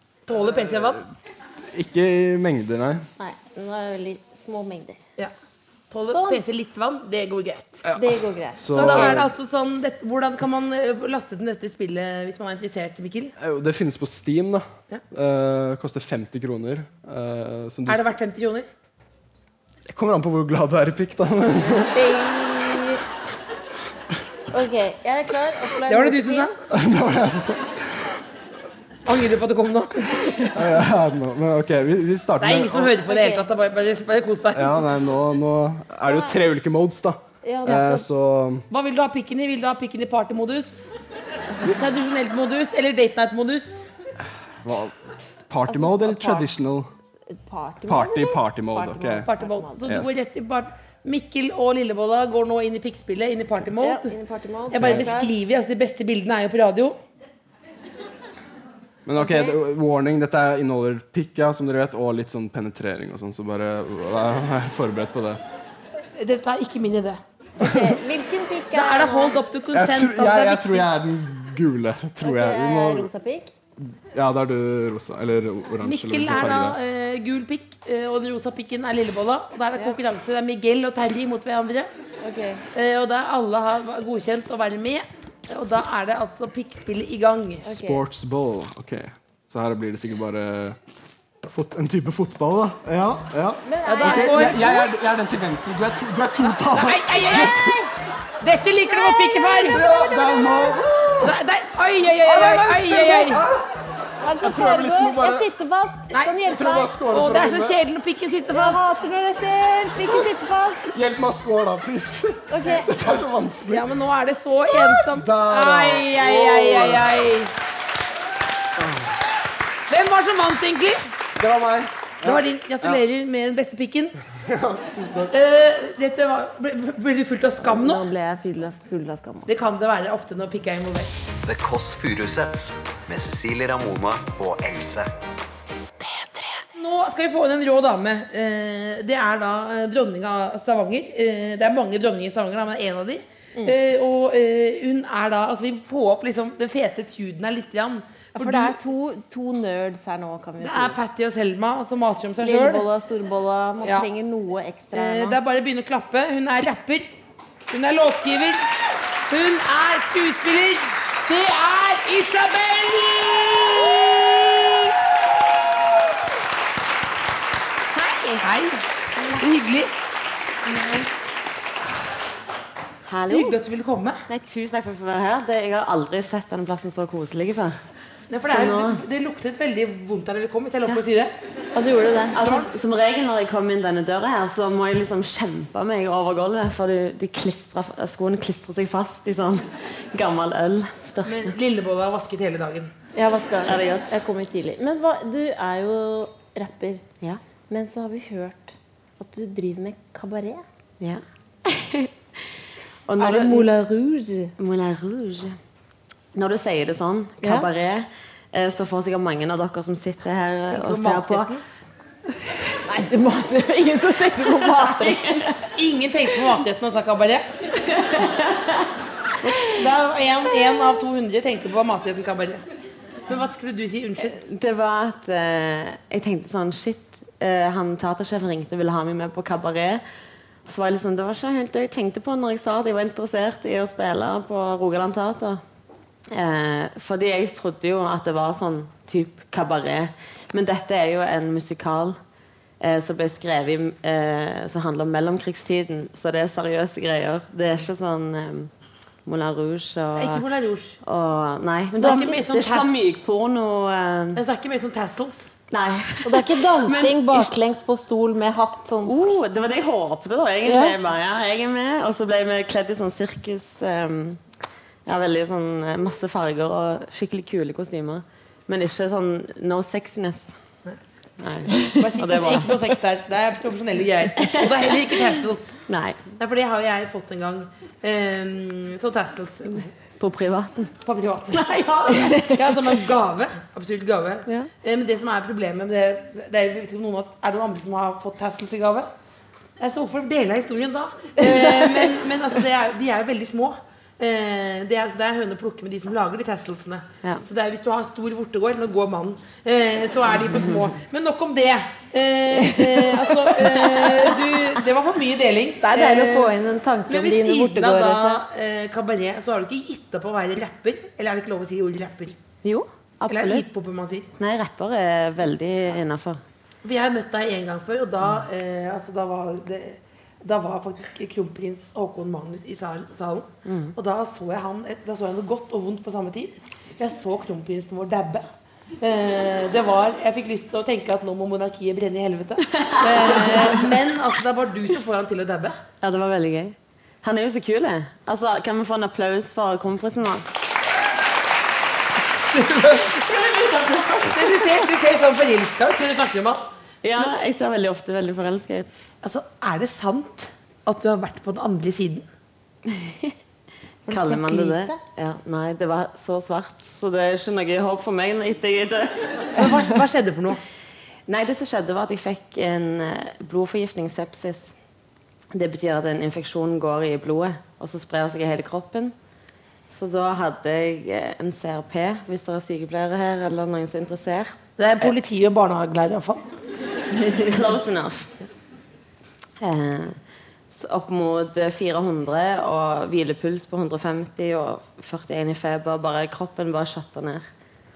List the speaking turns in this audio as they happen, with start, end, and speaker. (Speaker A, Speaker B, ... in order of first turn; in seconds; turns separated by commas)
Speaker A: 0.3-1.0, Speaker B: 0.8-1.1, Speaker B: 1.7-3.1, Speaker C: 3.2-5.0, Speaker A: 5.9-7.8, Speaker C: 6.1-6.4, Speaker B: 7.8-9.3, Speaker C: 7.9-9.3, Speaker A: 8.7-13.3, Speaker B: 13.4-18.1, Speaker A: 17.9-18.7, Speaker B: 19.9-21.9, Speaker C: 21.6-23.0, Speaker C: 24.5-26.5, Speaker A: 25.9-26.5, Speaker B: 26.6-28.2, Speaker A: 29.1-30.5, Speaker B: 30.5-32.9, Speaker A: 32.4-34.8, Speaker C: 33.0-33.5, Speaker B: 34.5-38.6, Speaker C: 36.0-36.3, Speaker C: 37.4-38.0, Speaker A: 38.7-40.9, Speaker A: 41.6-43.9, Speaker B: 44.6-44.9, Speaker B: 45.5-46.9, Speaker C: 45.7-46.5, Speaker C: 47.3-49.9, Speaker B: 47.9-49.3, Speaker A: 49.1-54.1, Speaker B: 49.8-50.2, Speaker C: 53.8-55.3, Speaker A: 54.7-57.0, Speaker B: 54.8-55.1, Speaker B: 59.0-65.4, Speaker C: 59.2-59.5, Speaker A: 66.2-67.2, Speaker C: 67.6-69.4, Speaker A: 68.7-70.9, Speaker B: 69.7-73.1, Speaker C: 72.2-73.5, Speaker B: 74.0-76.8, Speaker A: 75.8-81.9, Speaker C: 82.2-82.6, Speaker A: 82.7-87.7, Speaker C: 87.6-88.0, Speaker B: 87.7-90.8, Speaker B: 91.4-97.8, Speaker C: 93.6-94.9, Speaker A: 93.8-94.8, Speaker A: 96.6-97.9, Speaker A: 98.4-99.8, Speaker C: 98.8-100.8, Speaker B: 99.7-101.4, Speaker A: 101.2-103.4, Speaker B: 102.2-103.7, Speaker C: 104.2-107.0, Speaker B: 104.4-105.5, Speaker A: 106.1-106.4, Speaker B: 106.4-107.8, Speaker A: 107.0-109.0, Speaker C: 108.5-110.9, Speaker B: 110.9-113.9, Speaker C: 112.5-112.9, Speaker A: 113.7-117.5, Speaker B: 114.7-117.0, Speaker C: 115.9-117.0, Speaker B: 118.8-119.1, Speaker A: 119.9-121.1, Speaker B: 121.4-123.0, Speaker A: 122.2-124.1, Speaker B: 124.5-125.3, Speaker A: 125.3-128.1, Speaker C: 127.6-129.5, Speaker A: 129.5-131.1, Speaker D: 131.4-135.1, Speaker A: 136.2-148.8, Speaker C: 148.3-151.0, Speaker A: 150.6-152.9, Speaker C: 152.4-155.4, Speaker A: 153.8-154.1, Speaker A: 154.9-157.1, Speaker A: 157.7-158.7, Speaker A: 159.3-164.9, Speaker A: 168.4-169.9, Speaker E: 173.1-173.6, Speaker A: 173.3-174.2, Speaker E: 174.3-177.8, Speaker A: 178.3-181.3, Speaker E: 178.4-179.0, Speaker C: 181.7-182.4, Speaker E: 182.3-191.5, Speaker A: 191.2-192.9, Speaker C: 193.1-197.0, Speaker E: 193.7-194.2, Speaker C: 197.7-200.6, Speaker E: 201.0-202.5, Speaker E: 203.1-203.7, Speaker C: 203.2-204.5, Speaker E: 204.6-205.6, Speaker E: 206.3-211.5, Speaker C: 207.4-207.7, Speaker A: 210.7-211.6, Speaker C: 212.8-215.4, Speaker E: 214.7-215.7, Speaker A: 215.8-217.4, Speaker E: 217.8-218.9, Speaker C: 219.4-219.7, Speaker E: 219.4-219.7, Speaker A: 219.7-222.6, Speaker A: 223.3-224.4, Speaker E: 224.2-230.0, Speaker E: 230.7-235.6, Speaker E: 236.3-242.2, Speaker E: 242.8-248.7, Speaker E: 249.2-250.4, Speaker A: 250.2-251.0, Speaker E: 251.0-254.4, Speaker A: 251.9-252.9, Speaker C: 252.0-252.3, Speaker A: 254.3-255.5, Speaker E: 255.7-257.5, Speaker C: 256.2-259.4, Speaker E: 259.0-264.4, Speaker C: 260.6-260.9, Speaker E: 265.1-270.5, Speaker E: 271.4-272.9, Speaker A: 271.9-275.8, Speaker E: 274.4-276.3, Speaker A: 276.3-279.9, Speaker E: 280.2-280.9, Speaker A: 281.0-289.1, Speaker E: 281.5-282.6, Speaker A: 289.8-306.5, Speaker E: 300.5-300.9, Speaker C: 302.6-304.3, Speaker C: 305.8-308.4, Speaker A: 307.1-312.4, Speaker E: 312.6-313.6, Speaker A: 313.3-314.3, Speaker E: 314.4-316.4, Speaker A: 316.8-328.5, Speaker E: 323.6-323.9, Speaker A: 329.0-335.8, Speaker E: 332.7-333.9, Speaker E: 336.0-340.4, Speaker A: 342.5-343.2, Speaker E: 342.9-344.9, Speaker A: 344.2-346.6, Speaker E: 347.0-348.9, Speaker A: 349.2-352.3, Speaker E: 352.9-353.4, Speaker C: 354.1-355.0, Speaker E: 354.1-359.6, Speaker A: 359.5-360.6, Speaker E: 361.3-364.7, Speaker E: 365.5-369.1, Speaker E: 369.9-375.1, Speaker A: 374.8-376.5, Speaker E: 377.2-378.3, Speaker E: 379.6-380.2, Speaker E: 380.7-387.4